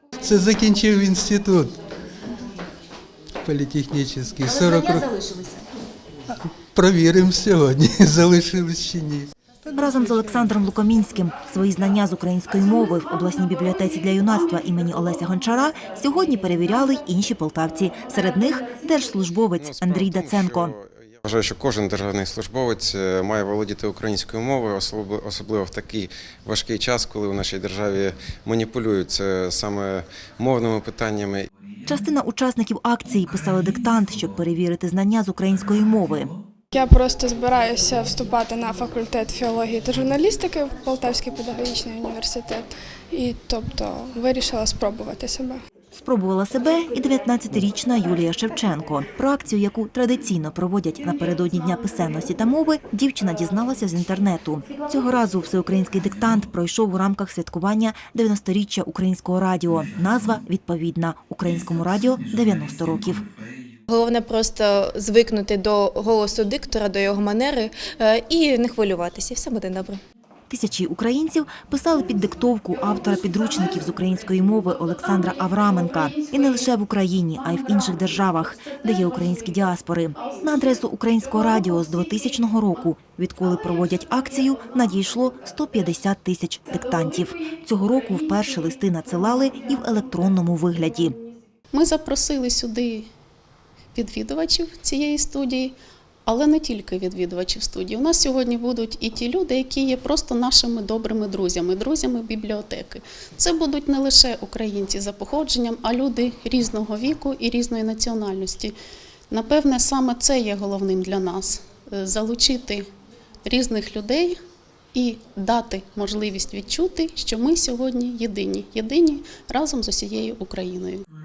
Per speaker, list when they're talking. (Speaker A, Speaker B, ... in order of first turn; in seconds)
Speaker A: 0.2-1.8, 3.4-5.2, 6.4-9.3
Speaker B: 4.6-5.6, 63.9-70.0
Speaker C: 9.7-20.7, 31.9-36.3, 45.9-63.2, 70.5-91.2
Speaker D: 19.6-31.5
Speaker E: 36.7-45.6
Speaker F: 91.7-93.1, 93.9-108.7, 109.3-112.8, 113.4-114.3, 114.9-121.0